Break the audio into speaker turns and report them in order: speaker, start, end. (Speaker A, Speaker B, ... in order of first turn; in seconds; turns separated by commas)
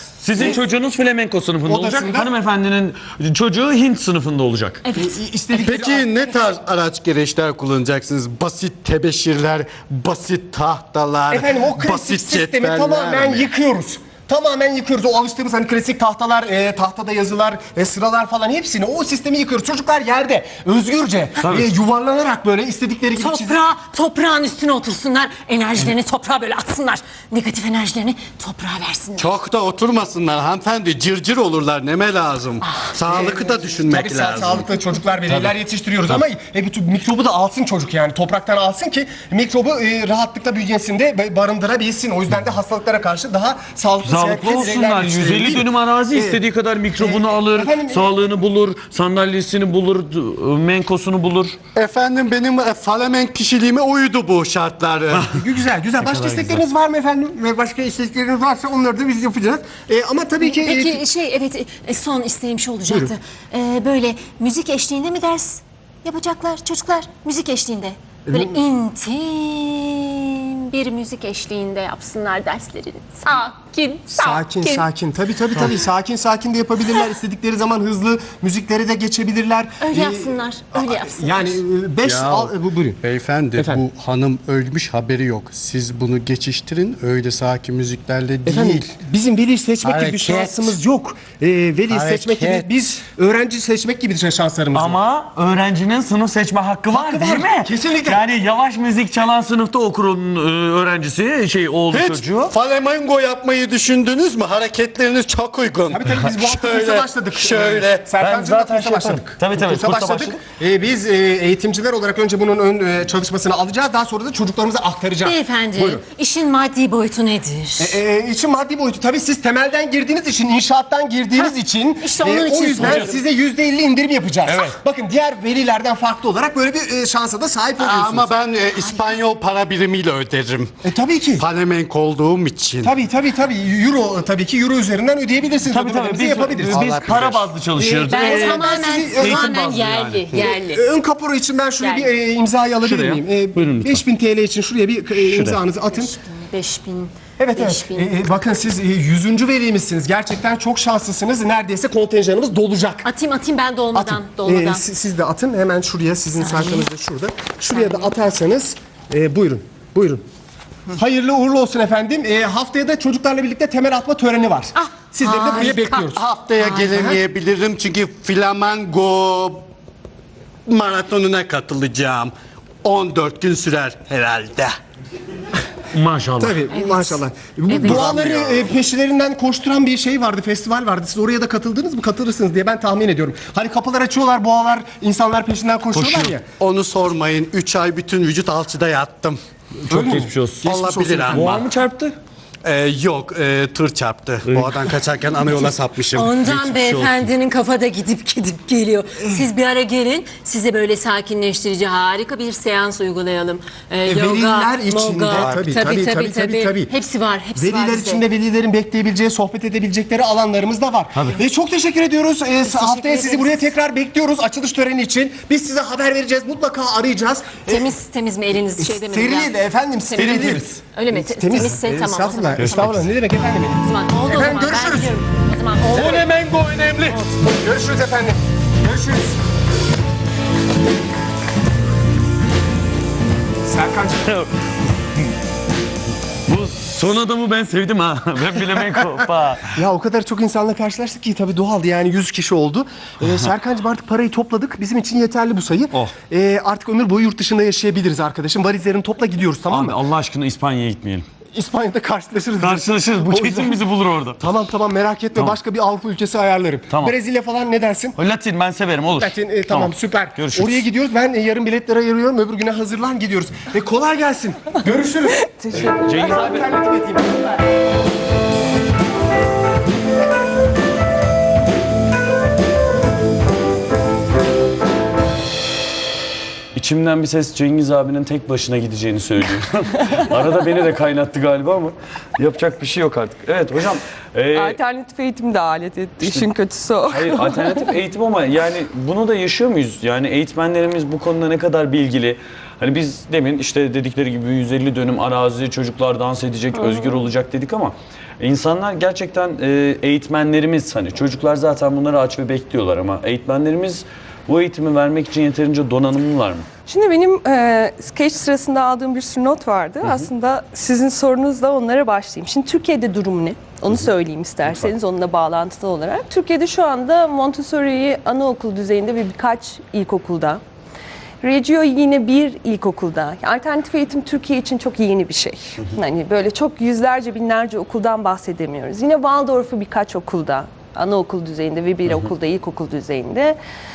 Speaker A: 0.2-4.8, Speaker B: 0.3-0.6, Speaker B: 1.7-2.3, Speaker C: 4.9-5.2, Speaker B: 4.9-6.1, Speaker D: 5.6-13.5, Speaker B: 11.3-23.6, Speaker A: 21.4-21.7, Speaker C: 23.2-29.4, Speaker D: 29.2-34.6, Speaker B: 33.0-46.4, Speaker A: 44.1-51.6, Speaker B: 47.0-48.1, Speaker D: 51.8-55.3, Speaker B: 55.3-61.0, Speaker A: 56.0-56.6, Speaker C: 60.4-74.8, Speaker B: 62.9-63.1, Speaker B: 68.3-68.6, Speaker B: 74.1-83.0, Speaker C: 79.8-81.6, Speaker D: 82.0-82.5, Speaker D: 83.0-88.8, Speaker B: 83.6-83.9, Speaker B: 88.5-95.0, Speaker D: 89.8-90.7, Speaker D: 91.9-92.7, Speaker A: 94.7-102.5, Speaker B: 96.9-98.2, Speaker D: 101.9-108.0, Speaker B: 105.9-116.0, Speaker A: 108.2-110.4, Speaker C: 115.2-118.0, Speaker B: 117.8-128.3, Speaker C: 121.4-123.2, Speaker A: 122.8-123.2, Speaker A: 124.5-124.8, Speaker D: 127.8-130.8, Speaker C: 128.8-129.2, Speaker B: 130.8-131.5, Speaker D: 131.4-132.9, Speaker B: 132.8-136.8, Speaker A: 135.7-140.4, Speaker D: 136.7-137.5, Speaker B: 137.8-139.6, Speaker C: 138.1-140.8, Speaker B: 140.3-146.1, Speaker C: 141.8-142.1, Speaker A: 142.8-144.0, Speaker A: 145.2-145.6, Speaker C: 145.9-148.1, Speaker B: 147.4-153.1, Speaker C: 153.0-154.8, Speaker B: 153.9-160.2, Speaker C: 156.5-156.8, Speaker C: 157.8-158.1, Speaker B: 160.9-166.2, Speaker C: 164.8-166.8, Speaker D: 166.1-169.7, Speaker B: 166.8-167.2, Speaker D: 170.7-172.3, Speaker D: 172.8-174.7, Speaker A: 175.9-176.6, Speaker B: 176.4-186.4, Speaker C: 176.7-177.2, Speaker C: 177.7-178.2, Speaker D: 177.8-178.6, Speaker A: 185.9-186.3, Speaker D: 186.6-189.4, Speaker A: 189.9-192.2, Speaker B: 189.9-191.6, Speaker D: 190.6-191.7, Speaker D: 192.6-197.0, Speaker A: 194.5-194.8, Speaker C: 196.1-208.2, Speaker A: 196.5-197.3, Speaker B: 204.1-206.9, Speaker D: 205.3-205.6, Speaker B: 207.6-217.9, Speaker C: 212.6-213.7, Speaker C: 217.7-219.6, Speaker B: 218.8-225.2, Speaker C: 220.1-223.2, Speaker A: 220.2-220.6, Speaker A: 222.6-223.0, Speaker C: 223.8-226.3, Speaker D: 225.9-227.3, Speaker B: 227.4-229.4, Speaker B: 233.7-234.3, Speaker A: 234.2-234.5, Speaker A: 236.5-239.8, Speaker B: 239.7-250.0, Speaker A: 249.7-251.3, Speaker B: 251.5-253.8, Speaker A: 252.6-254.4, Speaker B: 254.4-258.2, Speaker A: 256.9-257.1, Speaker A: 258.2-260.9, Speaker B: 259.2-267.5, Speaker E: 265.5-266.0, Speaker A: 266.0-266.7, Speaker A: 276.8-284.8, Speaker E: 284.5-287.9, Speaker A: 286.2-286.5, Speaker A: 287.1-306.7, Speaker E: 296.8-297.2, Speaker E: 306.9-320.6, Speaker A: 314.7-314.9, Speaker E: 321.4-333.6